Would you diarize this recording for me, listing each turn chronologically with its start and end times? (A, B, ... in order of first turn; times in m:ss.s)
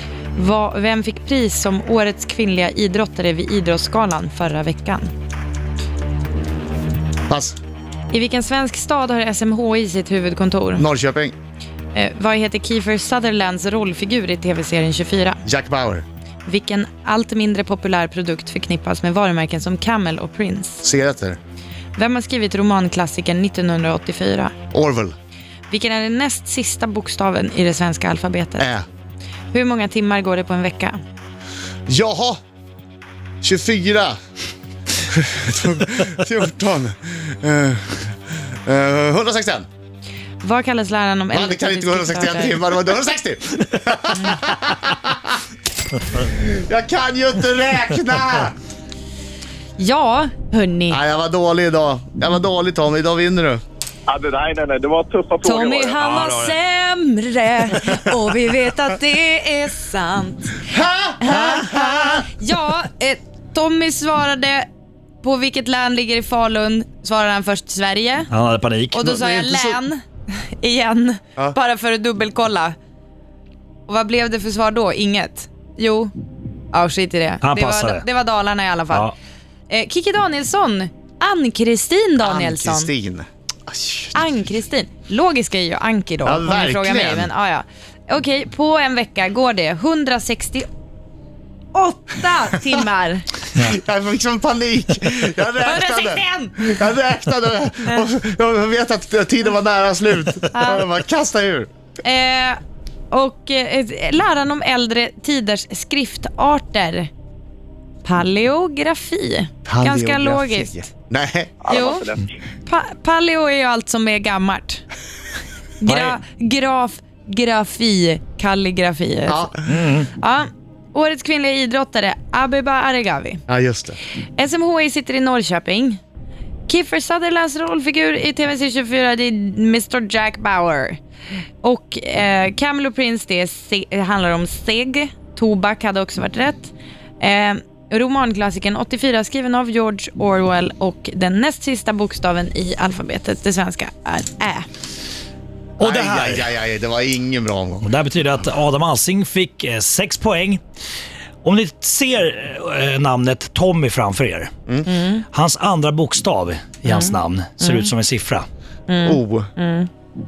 0:00.4-0:05.1 A
0:07.3-0:07.6 B
0:08.1-0:10.8 A
0:10.8-0:11.3 B
0:11.9-0:15.4 A
0:15.4-0:16.0 B
0:16.4-0:20.8 A
0:20.8-0:21.4 B
0:22.0-0:24.5 A
0:24.7-0:25.2 B
0:25.7-0:28.7 A
0:28.6-0:28.8 B
0:29.5-0:31.0 A
0:31.9-0:32.4 B
0:33.4-0:34.2 B
0:35.1-0:39.7 B
0:40.4-0:42.7 A
0:41.3-0:45.4 B
0:46.2-0:48.6 B
0:49.8-0:51.0 A
0:50.9-0:53.6 B
0:54.1-0:56.0 C
0:55.4-1:00.6 A
0:56.0-0:56.6 D
1:00.7-1:02.2 B
1:01.2-1:04.7 A
1:05.2-1:08.3 A
1:08.3-1:09.1 D
1:08.9-1:12.8 A
1:09.0-1:09.8 B
1:13.9-1:16.1 A
1:16.7-1:19.1 A
1:17.4-1:18.0 D
1:19.7-1:22.9 A
1:22.2-1:24.2 B
1:24.1-1:30.7 A
1:26.2-1:27.3 B
1:31.7-1:33.3 A
1:33.6-1:41.7 B
1:35.6-1:36.7 A
1:40.5-1:40.8 A
1:42.0-1:42.6 A
1:43.1-1:47.1 A
1:48.0-1:50.9 A
1:49.7-1:51.7 B
1:51.6-1:52.3 C
1:51.7-1:52.1 A
1:52.6-1:54.8 A
1:55.8-1:59.5 A
1:55.9-1:56.2 D
1:59.3-1:59.9 B
1:59.7-2:00.1 D
2:00.2-2:03.4 A
2:03.5-2:04.0 B
2:04.4-2:06.0 A
2:06.7-2:11.0 A
2:11.6-2:24.7 A
2:25.8-2:26.5 D
2:25.8-2:27.9 B
2:27.8-2:30.6 D
2:31.4-2:34.5 D
2:34.9-2:35.3 A
2:35.3-2:38.5 D
2:36.8-2:37.9 A
2:38.9-2:39.9 A
2:39.0-2:39.5 B